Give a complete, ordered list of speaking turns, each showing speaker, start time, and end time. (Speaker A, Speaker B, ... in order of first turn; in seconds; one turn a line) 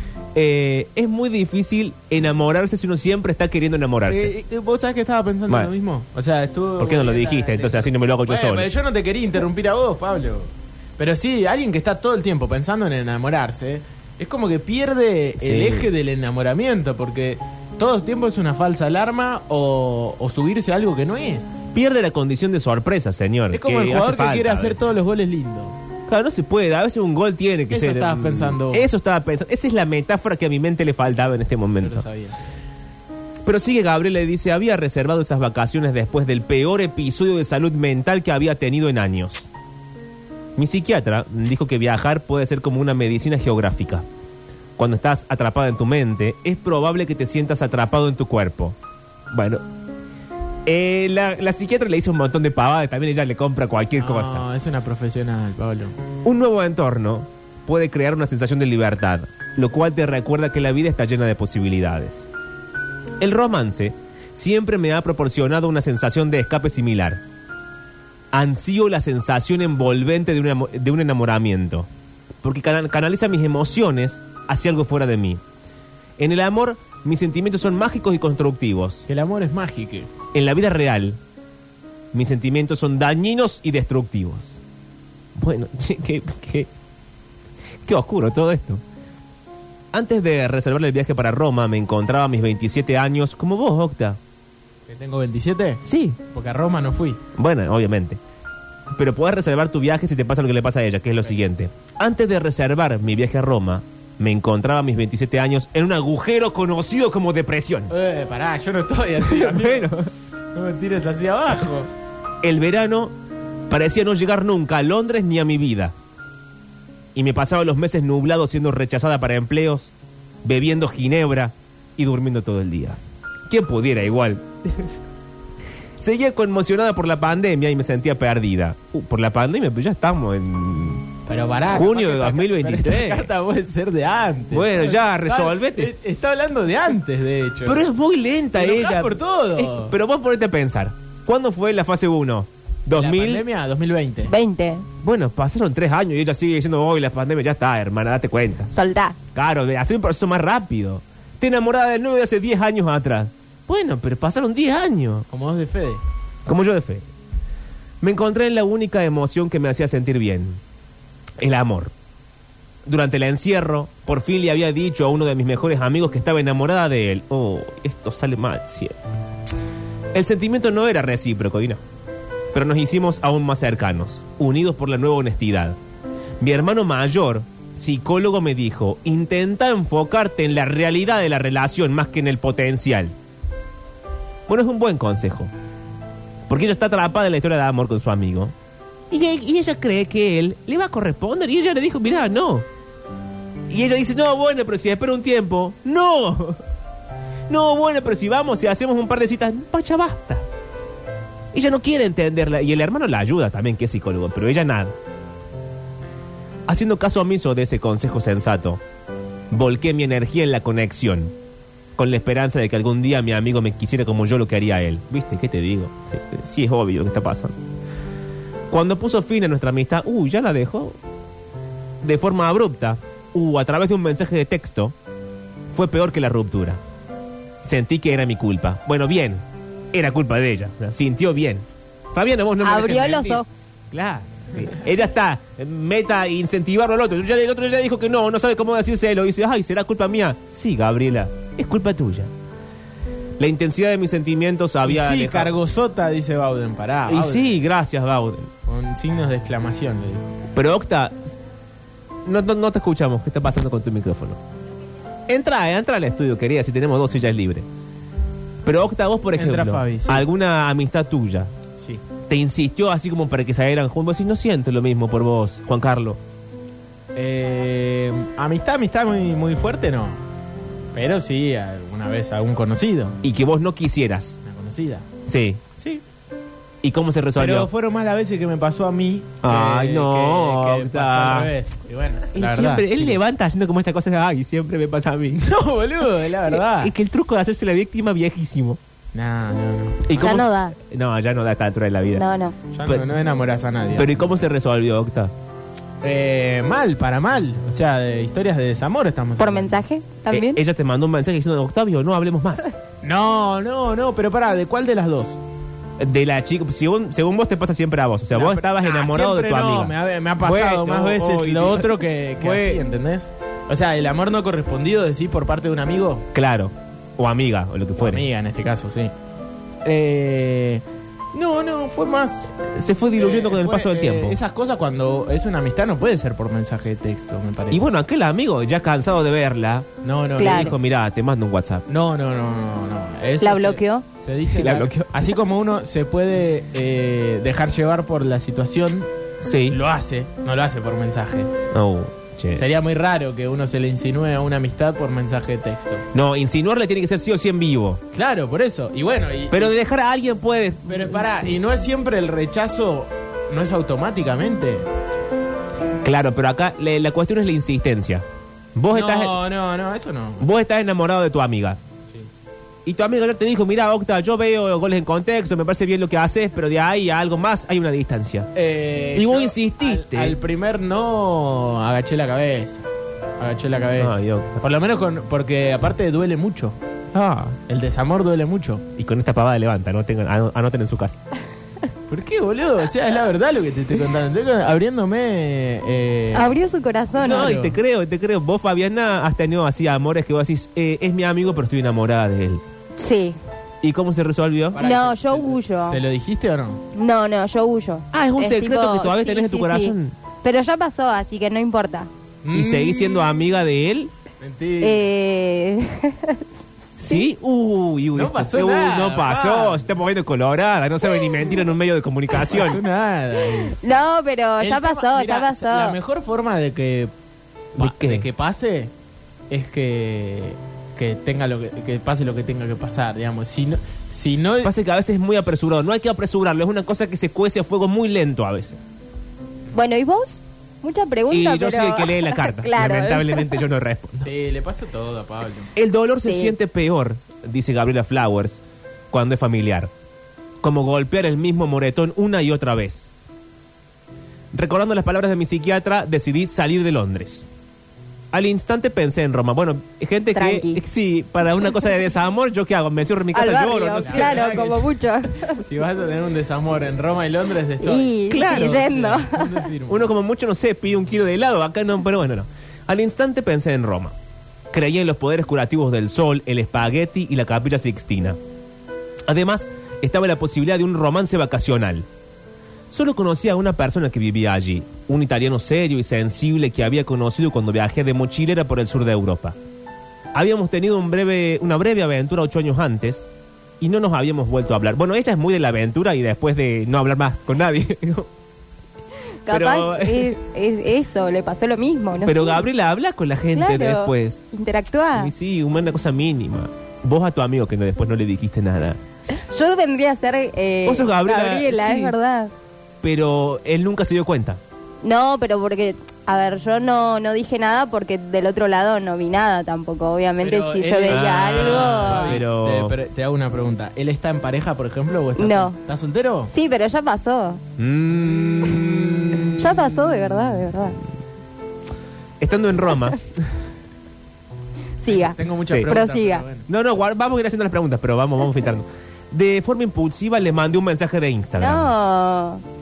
Speaker A: 0.3-4.3
Speaker B: 4.0-21.7
Speaker A: 5.5-5.7
Speaker A: 6.8-8.7
Speaker A: 15.4-15.9
Speaker A: 21.7-24.8
Speaker B: 23.5-25.8
Speaker A: 26.1-32.0
Speaker B: 27.7-28.9
Speaker B: 31.8-32.4
Speaker A: 33.5-39.5
Speaker A: 40.5-44.0
Speaker A: 44.8-48.8
Speaker A: 49.3-49.6
Speaker A: 50.6-54.4
Speaker B: 54.0-55.9
Speaker A: 56.2-62.3
Speaker A: 63.2-67.2
Speaker A: 68.3-71.9
Speaker A: 72.4-75.4
Speaker A: 76.2-79.0
Speaker B: 79.1-80.1
Speaker A: 80.3-81.2
Speaker A: 82.1-84.6
Speaker A: 85.3-86.7
Speaker A: 87.8-88.8
Speaker A: 89.9-94.2
Speaker B: 94.9-97.2
Speaker A: 95.8-96.2
Speaker A: 97.3-98.2
Speaker A: 98.9-107.9
Speaker B: 107.9-111.9
Speaker A: 109.2-110.1
Speaker A: 112.4-113.1
Speaker A: 113.7-115.9
Speaker A: 117.1-119.9
Speaker A: 120.4-124.9
Speaker A: 126.0-131.1
Speaker B: 131.3-137.8
Speaker A: 131.7-133.3
Speaker A: 134.5-135.9
Speaker A: 137.6-143.4
Speaker B: 138.5-139.9
Speaker B: 142.9-144.3
Speaker C: 144.3-144.8
Speaker A: 145.0-148.7
Speaker C: 148.7-149.2
Speaker A: 149.3-155.2
Speaker B: 155.3-156.0
Speaker A: 156.4-157.1
Speaker A: 158.0-160.6
Speaker A: 161.4-161.9
Speaker A: 162.8-169.0
Speaker A: 170.1-171.8
Speaker A: 172.5-175.8
Speaker A: 176.4-183.1
Speaker A: 184.5-185.5
Speaker A: 186.5-188.5
Speaker A: 189.1-192.6
Speaker A: 193.7-196.6
Speaker A: 197.5-200.4
Speaker A: 201.5-204.9
Speaker A: 206.7-208.8
Speaker A: 209.5-211.3
Speaker A: 212.0-217.6
Speaker A: 218.7-221.0
Speaker A: 222.0-224.9
Speaker A: 225.7-226.8
Speaker A: 227.6-242.3
Speaker C: 232.6-233.4
Speaker A: 243.4-245.6
Speaker B: 244.8-247.6
Speaker A: 247.1-248.5
Speaker B: 248.7-250.3
Speaker A: 250.5-251.3
Speaker A: 252.2-254.4
Speaker A: 255.3-257.6
Speaker A: 258.6-261.5
Speaker B: 259.4-260.2
Speaker A: 262.3-266.2
Speaker B: 267.1-270.2
Speaker B: 270.9-273.2
Speaker A: 273.2-274.4
Speaker B: 274.4-275.1
Speaker A: 275.2-275.6
Speaker B: 275.8-276.0
Speaker A: 276.8-277.7
Speaker B: 277.4-283.2
Speaker A: 279.4-281.5
Speaker A: 282.3-285.4
Speaker B: 285.4-286.9
Speaker A: 286.5-288.8
Speaker B: 289.1-290.4
Speaker A: 290.1-292.2
Speaker C: 290.2-290.8
Speaker C: 292.1-292.6
Speaker B: 292.7-294.4
Speaker A: 292.8-293.1
Speaker A: 293.9-295.3
Speaker B: 296.0-299.8
Speaker C: 299.4-300.6
Speaker A: 300.3-302.7
Speaker B: 303.0-305.4
Speaker A: 306.0-312.8
Speaker B: 308.3-316.3
Speaker A: 316.3-318.3
Speaker B: 318.0-319.1
Speaker B: 319.8-322.6
Speaker A: 322.7-324.4
Speaker B: 323.1-327.9
Speaker A: 327.7-331.9
Speaker B: 330.0-330.7
Speaker C: 330.4-330.7
Speaker B: 331.9-339.1
Speaker C: 333.4-334.0
Speaker A: 334.5-335.3
Speaker A: 339.4-339.8
Speaker B: 339.7-341.5
Speaker A: 341.7-342.6
Speaker B: 342.5-346.0
Speaker A: 346.1-348.0
Speaker B: 348.1-349.7
Speaker A: 349.5-351.6
Speaker B: 350.9-354.9
Speaker A: 356.0-359.4
Speaker B: 358.9-360.5
Speaker A: 360.4-361.8
Speaker A: 362.9-368.5
Speaker B: 368.5-372.8
Speaker A: 369.1-370.4
Speaker B: 373.4-376.8
Speaker A: 374.0-374.6
Speaker A: 377.1-377.6
Speaker B: 377.7-378.8
Speaker A: 378.9-381.2
Speaker B: 382.1-386.6
Speaker C: 386.3-387.5
Speaker B: 387.1-387.8
Speaker A: 387.2-392.6
Speaker C: 393.0-393.4
Speaker A: 393.8-394.8
Speaker B: 394.7-396.8
Speaker C: 394.8-396.0
Speaker C: 396.9-402.1
Speaker A: 398.1-400.1
Speaker B: 402.4-403.4
Speaker A: 402.5-404.1
Speaker B: 404.4-405.1
Speaker C: 404.8-406.4
Speaker C: 407.0-407.2
Speaker A: 407.0-412.8
Speaker B: 408.1-409.9
Speaker B: 412.5-413.9
Speaker C: 413.8-416.0
Speaker B: 414.6-417.1
Speaker B: 417.7-418.9
Speaker A: 417.8-418.3
Speaker B: 419.5-424.7
Speaker A: 424.6-428.8
Speaker C: 429.7-433.6
Speaker A: 431.3-434.3
Speaker B: 434.2-435.7
Speaker A: 435.8-439.9
Speaker C: 436.2-436.5
Speaker A: 440.6-443.1
Speaker A: 444.5-447.5
Speaker A: 448.3-454.7
Speaker C: 450.3-450.8
Speaker C: 453.3-455.6
Speaker B: 454.0-454.9
Speaker B: 455.6-460.1
Speaker C: 457.8-459.7
Speaker A: 458.3-458.8
Speaker A: 459.9-464.1
Speaker A: 464.7-468.4
Speaker A: 469.3-472.1
Speaker A: 472.9-479.6
Speaker A: 480.3-488.3
Speaker C: 489.4-492.6
Speaker A: 489.5-490.4
Speaker A: 492.2-494.4
Speaker C: 493.5-495.3
Speaker A: 495.1-499.0
Speaker C: 499.3-502.5
Speaker A: 500.9-502.1
Speaker A: 503.0-504.6
Speaker C: 505.0-512.4
Speaker B: 510.4-516.5
Speaker A: 511.1-513.0
Speaker C: 515.4-515.8
Speaker C: 516.5-517.6
Speaker A: 517.8-519.8
Speaker C: 519.5-521.0
Speaker A: 522.4-523.4
Speaker C: 525.0-526.5
Speaker B: 525.1-526.7
Speaker A: 526.7-531.9
Speaker C: 531.6-532.6